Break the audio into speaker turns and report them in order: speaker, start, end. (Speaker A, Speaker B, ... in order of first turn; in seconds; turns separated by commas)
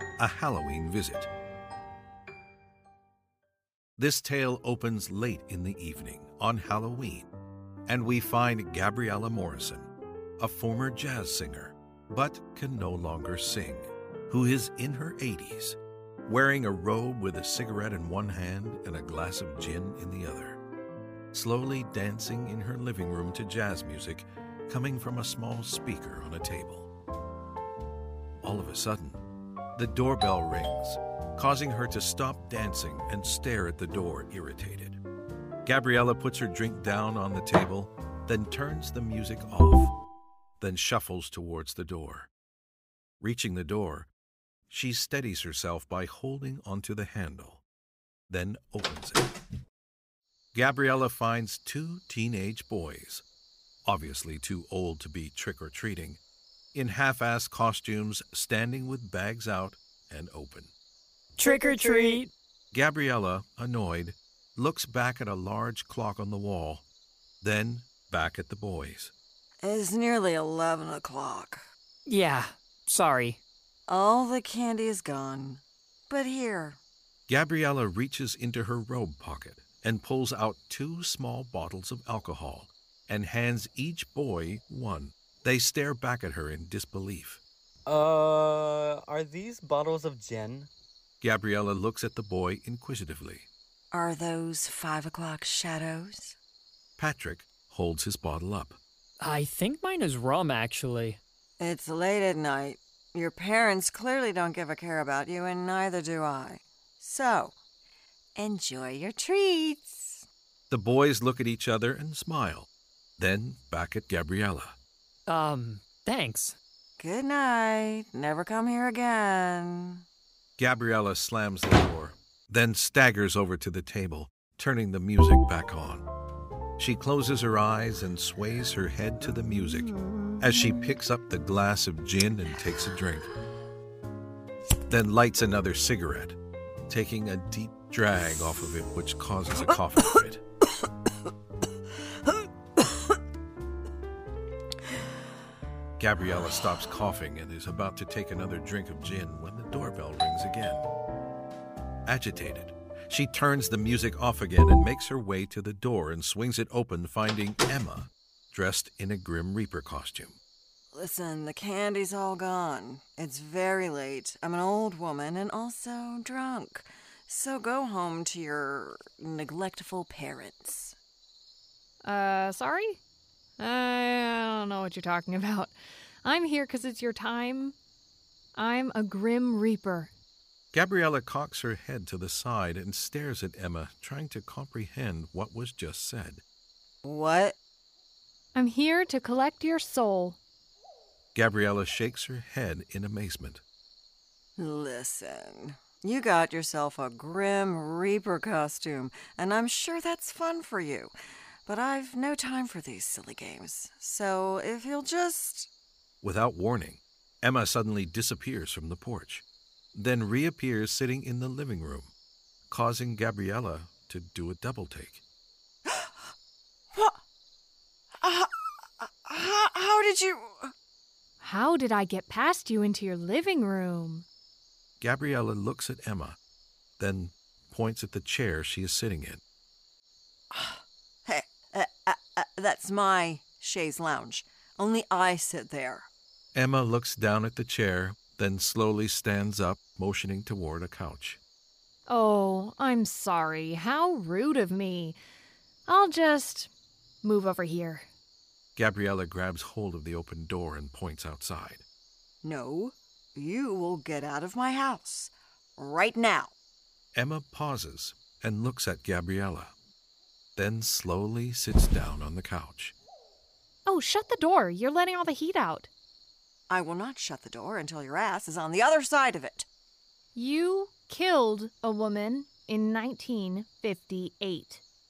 Speaker A: 0.2-1.3, Speaker A: 4.0-7.3, Speaker A: 7.9-9.9, Speaker A: 10.4-20.6, Speaker A: 21.3-26.9, Speaker A: 28.4-29.2, Speaker A: 29.8-35.0, Speaker A: 35.6-39.9, Speaker A: 40.6-42.3, Speaker A: 43.2-44.1, Speaker A: 44.7-47.6, Speaker A: 48.3-49.3, Speaker A: 50.5-53.2, Speaker A: 53.9-56.2, Speaker A: 56.7-60.7, Speaker B: 61.4-62.3, Speaker C: 61.4-62.2, Speaker A: 62.7-66.8, Speaker A: 67.4-69.1, Speaker D: 69.6-71.6, Speaker B: 72.1-73.4, Speaker D: 73.9-76.8, Speaker A: 77.3-87.4, Speaker C: 87.9-90.7, Speaker A: 91.2-93.5, Speaker D: 93.9-96.4, Speaker A: 97.0-98.8, Speaker B: 99.2-101.2, Speaker D: 101.6-107.5, Speaker D: 108.4-110.2, Speaker A: 110.7-114.8, Speaker B: 115.3-116.6, Speaker D: 117.0-120.0, Speaker A: 120.6-126.1, Speaker A: 126.8-133.3, Speaker D: 130.1-130.7, Speaker A: 134.9-136.4, Speaker A: 136.9-140.4, Speaker A: 146.0-150.8, Speaker A: 152.1-160.4, Speaker D: 160.9-171.0, Speaker E: 172.0-173.0, Speaker E: 173.6-177.8, Speaker E: 178.6-180.1, Speaker A: 180.7-186.4, Speaker D: 187.0-187.6, Speaker E: 188.6-190.4, Speaker A: 191.3-193.6, Speaker D: 194.6-201.1, Speaker D: 201.7-205.7, Speaker A: 206.2-212.1, Speaker A: 212.7-215.2, Speaker D: 215.9-216.1, Speaker D: 216.9-217.2, Speaker D: 218.2-220.7, Speaker E: 221.4-224.3, Speaker A: 225.0-226.4, Speaker A: 227.0-229.4, Speaker D: 230.5-236.1, Speaker A: 236.6-241.4, Speaker E: 242.1-245.2, Speaker E: 245.9-246.7, Speaker E: 247.2-248.1, Speaker A: 248.8-251.8, Speaker D: 252.4-256.5, Speaker A: 257.1-259.7, Speaker A: 260.6-263.0, Speaker E: 263.9-265.9, Speaker D: 266.7-269.7, Speaker E: 270.4-274.8